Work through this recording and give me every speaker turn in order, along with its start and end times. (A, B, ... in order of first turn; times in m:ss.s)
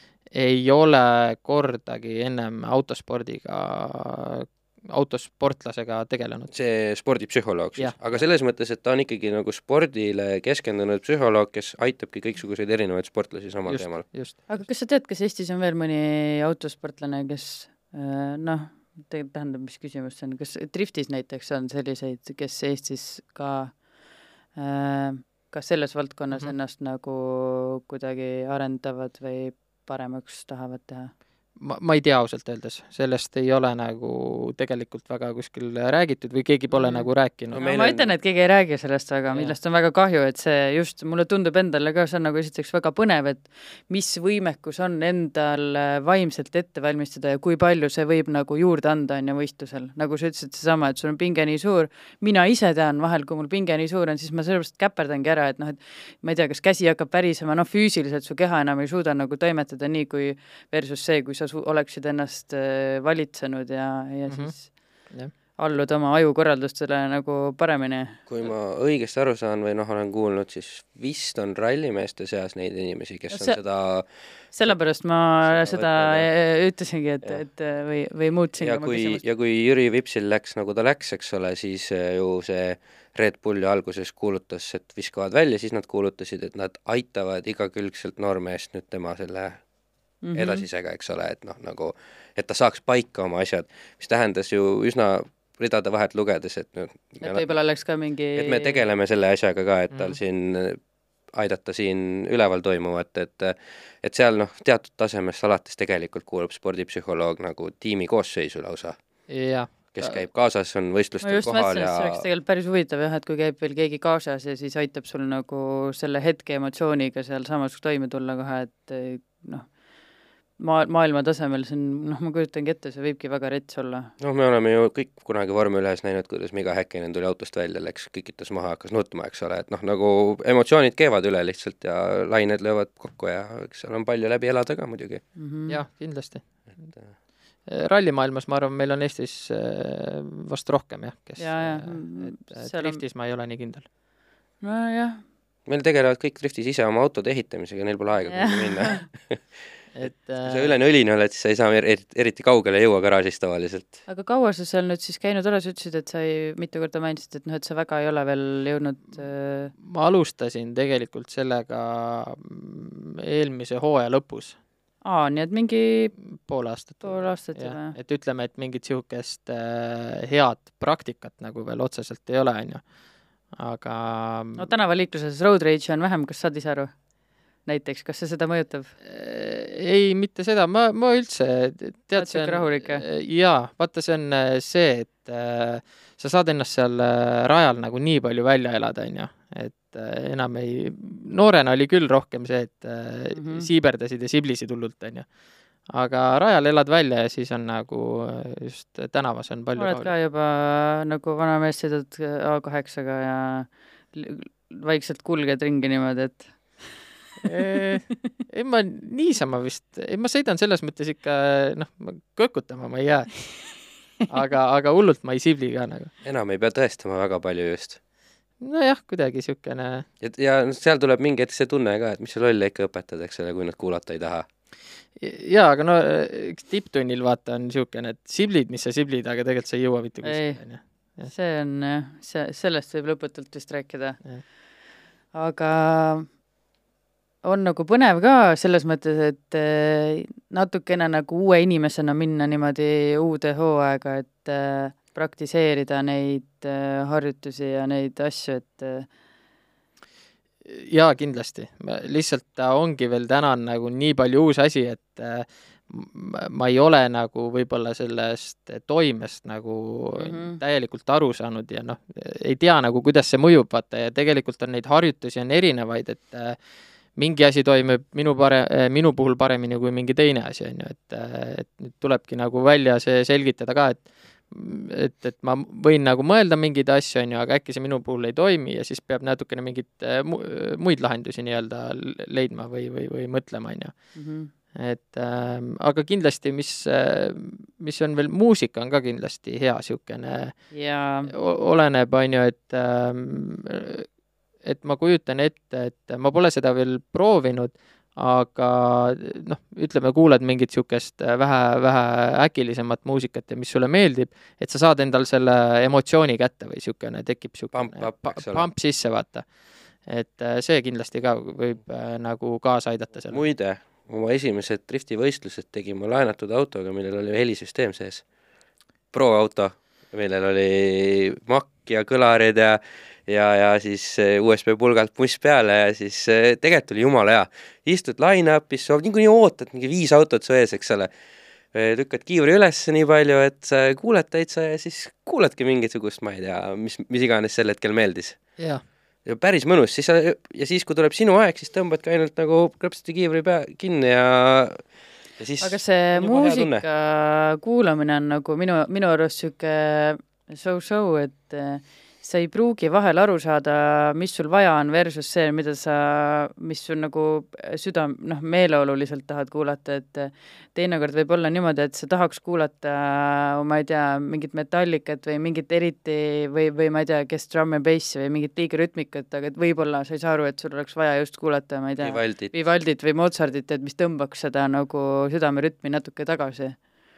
0:00.3-0:06.5 A
0:06.5-0:14.0 B
0:07.8-0:08.2 A
0:13.7-0:14.6 A
0:14.5-0:23.8 C
0:24.6-0:31.1 C
0:31.6-0:37.6 A
0:36.7-0:37.1 C
0:37.5-0:38.1 B
0:37.6-1:04.7 C
1:04.3-1:04.5 A
1:05.6-1:08.2 C
1:08.3-1:14.1 B
1:13.3-1:13.6 C
1:14.5-1:19.2 C
1:15.4-1:16.3 B
1:18.6-1:29.6 B
1:30.2-1:30.6 C
1:30.4-1:37.5 B
1:37.2-1:38.8 C
1:38.4-1:40.8 B
1:39.9-1:40.2 A
1:41.3-1:48.9 B
1:49.3-1:50.2 A
1:49.9-1:52.2 B
1:51.2-1:59.7 C
2:00.6-2:04.1 C
2:04.2-2:15.2 B
2:15.4-2:15.8 C
2:15.7-2:16.4 A
2:17.7-2:23.8 A
2:21.4-2:23.0 C
2:24.6-2:25.2 C
2:25.7-2:29.4 B
2:28.3-2:29.0 C
2:29.9-2:30.7 A
2:30.4-2:34.0 B
2:34.1-2:39.7 C
2:39.8-2:44.6 A
2:45.0-2:46.1 C
2:46.4-2:52.8 A
2:47.0-2:47.9 C
2:53.6-2:54.7 A
2:54.6-2:56.9 C
2:57.6-2:58.9 C
2:59.0-3:15.2 A
3:02.2-3:03.0 C
3:13.3-3:13.7 C
3:15.9-3:20.1 A
3:19.8-3:26.6 C
3:27.4-3:33.5 A
3:27.4-3:28.0 C
3:34.3-3:36.1 A
3:36.2-3:38.0 B
3:38.6-3:40.0 A
3:40.2-3:44.4 B
3:45.2-3:51.3 A
3:50.2-3:50.6 C
3:51.2-3:54.2 C
3:55.3-3:56.3 C
3:57.4-4:09.1 C
4:10.6-4:26.6 A
4:20.2-4:20.6 C
4:27.2-4:43.9 A
4:44.1-4:44.5 C
4:44.7-4:50.5 A
4:50.7-4:51.3 C
4:51.3-4:54.1 A
4:54.6-5:09.4 A
5:07.7-5:08.7 B
5:10.1-5:13.4 A
5:13.3-5:18.2 B
5:19.1-5:31.1 B
5:31.7-5:38.4 B
5:38.6-5:38.8 A
5:39.2-5:44.9 B
5:45.4-5:46.8 B
5:45.6-6:16.8 C
6:12.0-6:12.5 B